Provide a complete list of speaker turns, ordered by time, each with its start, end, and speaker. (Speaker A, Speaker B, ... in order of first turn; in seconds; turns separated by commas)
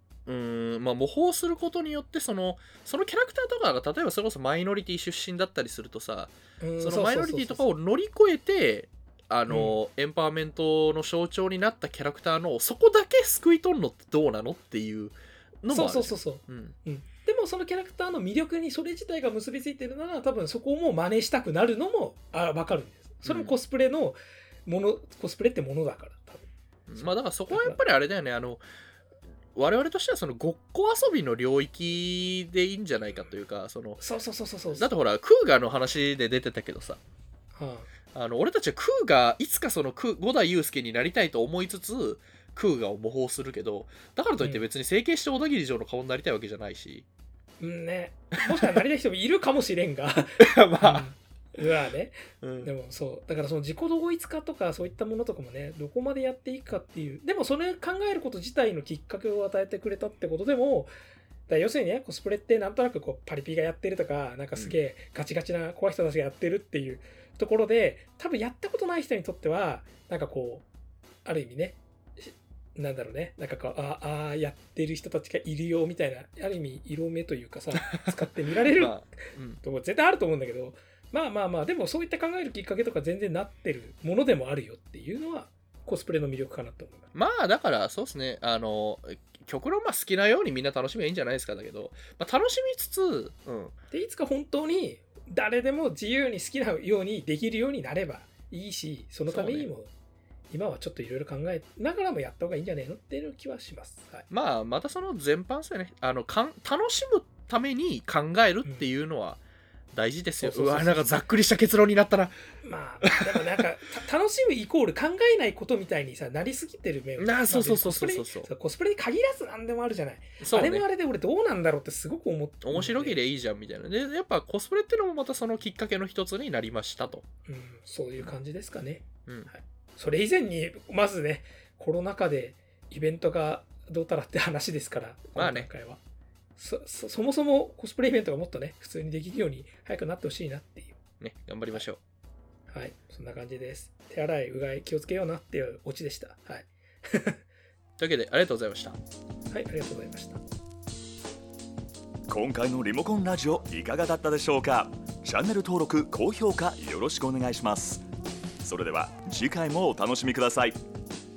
Speaker A: 0.3-16.8, Speaker B: 6.6-7.7, Speaker B: 9.5-9.8, Speaker B: 15.7-27.8, Speaker A: 23.2-23.6, Speaker A: 26.9-28.6, Speaker A: 29.6-34.0, Speaker B: 34.0-34.9, Speaker A: 34.7-37.0, Speaker B: 37.5-37.9, Speaker A: 38.1-47.0, Speaker B: 47.6-60.9, Speaker A: 50.4-51.1, Speaker A: 52.4-52.7, Speaker B: 61.5-70.7, Speaker B: 71.2-87.0, Speaker A: 77.8-78.1, Speaker A: 78.7-79.6, Speaker A: 87.1-93.8, Speaker B: 93.9-99.9, Speaker A: 99.3-99.7, Speaker B: 100.5-104.3, Speaker A: 104.3-109.4, Speaker A: 109.9-112.4, Speaker B: 110.4-111.1, Speaker B: 112.6-123.2, Speaker A: 113.0-113.4, Speaker A: 117.2-118.5, Speaker A: 120.4-120.8, Speaker A: 122.6-127.2, Speaker B: 127.5-136.0, Speaker A: 135.3-135.7, Speaker B: 136.6-141.0, Speaker A: 141.2-142.0, Speaker B: 142.7-147.4, Speaker A: 148.0-149.0, Speaker B: 149.5-150.4, Speaker C: 152.3-158.0, Speaker C: 158.6-160.8